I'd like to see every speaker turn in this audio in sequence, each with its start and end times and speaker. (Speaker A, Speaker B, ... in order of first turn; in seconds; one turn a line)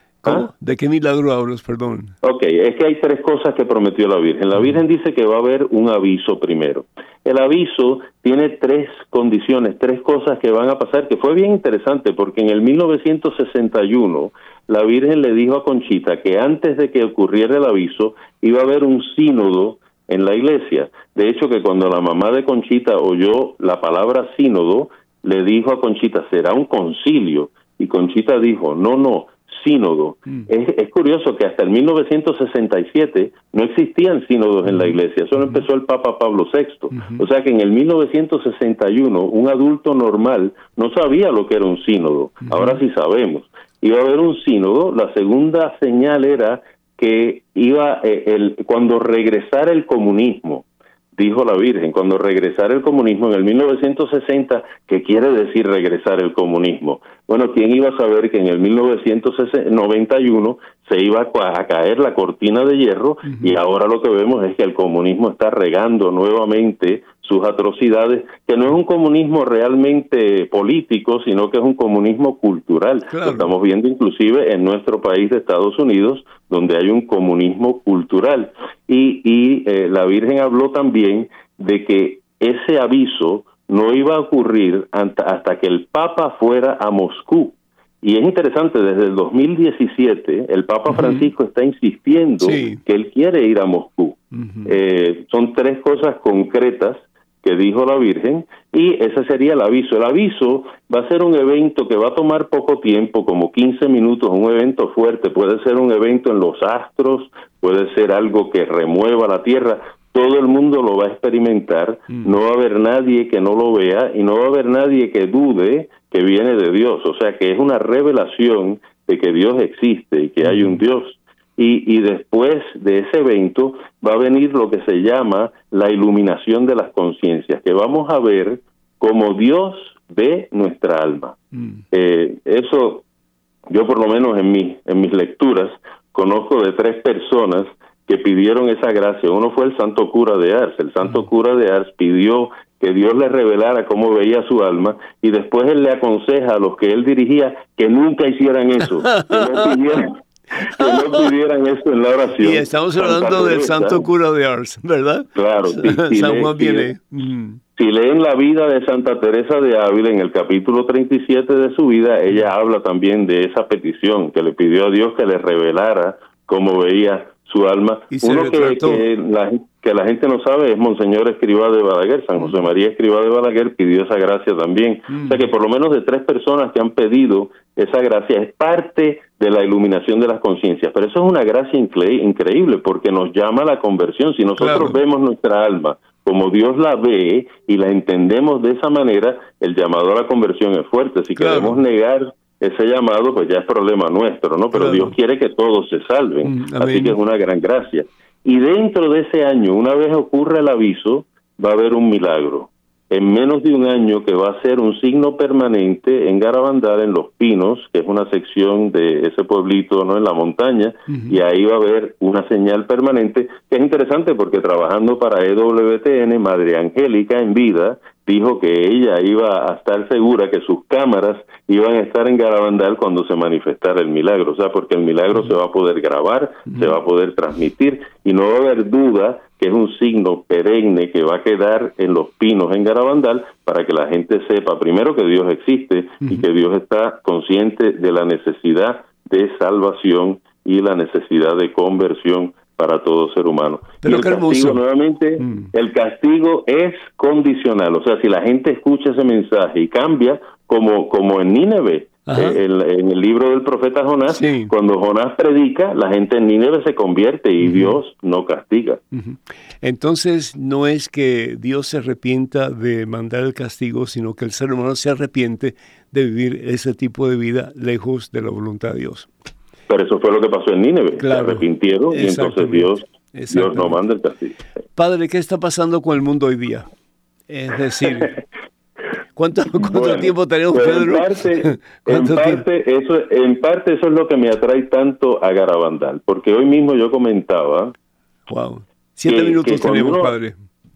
Speaker A: 0.2-2.1
Speaker B: 2.2-50.6
Speaker A: 34.6-35.6
Speaker A: 36.9-37.2
Speaker A: 42.5-42.8
Speaker B: 51.1-131.4
Speaker A: 63.2-63.5
Speaker A: 73.1-73.5
Speaker A: 90.9-91.3
Speaker A: 92.4-92.8
Speaker A: 94.3-94.7
Speaker A: 120.4-120.8
Speaker A: 131.5-131.8
Speaker B: 131.9-133.0
Speaker B: 133.7-154.1
Speaker A: 149.0-150.0
Speaker A: 150.6-151.3
Speaker A: 152.4-157.6
Speaker B: 155.3-156.9
Speaker B: 157.8-259.0
Speaker A: 168.1-169.1
Speaker A: 175.1-175.4
Speaker A: 184.6-185.0
Speaker A: 191.4-191.8
Speaker A: 194.7-195.1
Speaker A: 196.4-197.2
Speaker A: 211.1-211.4
Speaker A: 226.7-226.9
Speaker A: 244.0-244.8
Speaker A: 245.4-245.7
Speaker A: 252.2-252.6
Speaker A: 254.3-254.7
Speaker A: 257.6-258.0
Speaker A: 259.1-269.3
Speaker B: 269.9-274.5
Speaker A: 271.2-274.0
Speaker A: 274.9-276.9
Speaker A: 277.5-278.4
Speaker A: 279.4-282.6
Speaker B: 279.8-287.9
Speaker A: 288.5-290.6
Speaker B: 289.3-290.3